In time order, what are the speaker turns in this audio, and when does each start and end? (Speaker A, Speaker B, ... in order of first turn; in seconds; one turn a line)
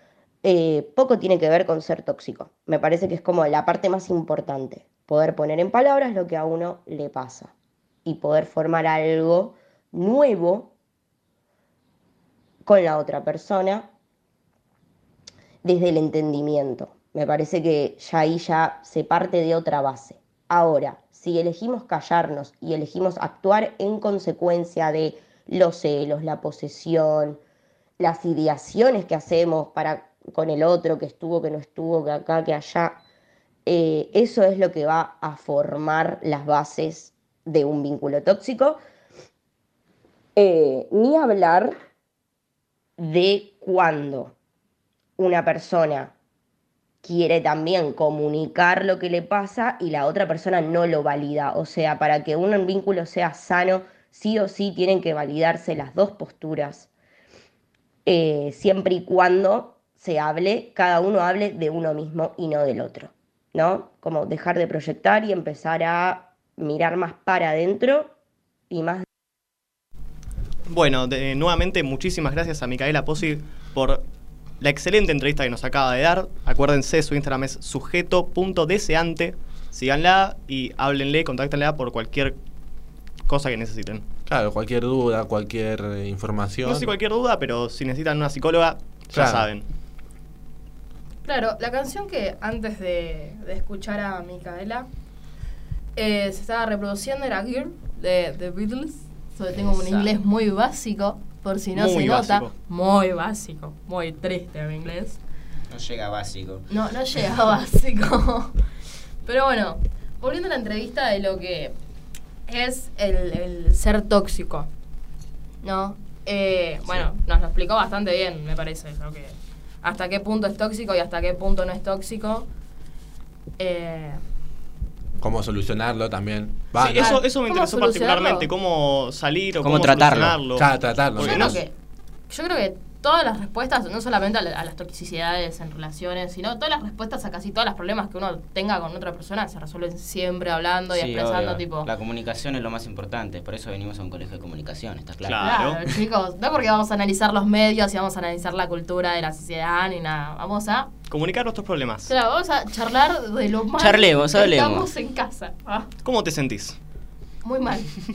Speaker A: 0.4-7.5
Speaker A: 8.0-10.7
Speaker A: 12.6-13.9
Speaker A: 15.6-27.4
Speaker A: 28.0-33.0
Speaker A: 33.6-38.8
Speaker A: 40.4-41.7
Speaker A: 43.0-44.4
Speaker A: 45.2-46.1
Speaker A: 47.0-56.9
Speaker A: 58.0-68.1
Speaker A: 68.7-69.0
Speaker B: 70.7-74.0
Speaker B: 74.6-82.4
Speaker B: 83.3-84.0
Speaker C: 84.3-86.9
Speaker B: 86.6-89.6
Speaker C: 89.1-89.5
Speaker D: 91.2-94.9
Speaker D: 96.0-105.2
Speaker E: 99.6-100.1
Speaker B: 101.7-102.5
Speaker E: 105.7-106.7
Speaker D: 106.7-108.5
Speaker D: 109.2-111.7
Speaker D: 112.5-114.7
Speaker D: 115.6-122.5
Speaker D: 123.6-124.2
Speaker C: 125.2-127.2
Speaker B: 126.7-131.6
Speaker D: 127.0-128.5
Speaker E: 129.6-130.4
Speaker C: 130.5-131.6
Speaker D: 131.2-131.7
Speaker D: 132.3-141.9
Speaker E: 140.9-145.7
Speaker B: 145.2-145.8
Speaker D: 145.4-150.9
Speaker B: 151.1-152.1
Speaker D: 152.1-155.9
Speaker E: 153.8-154.9
Speaker B: 156.0-156.8
Speaker D: 157.4-157.9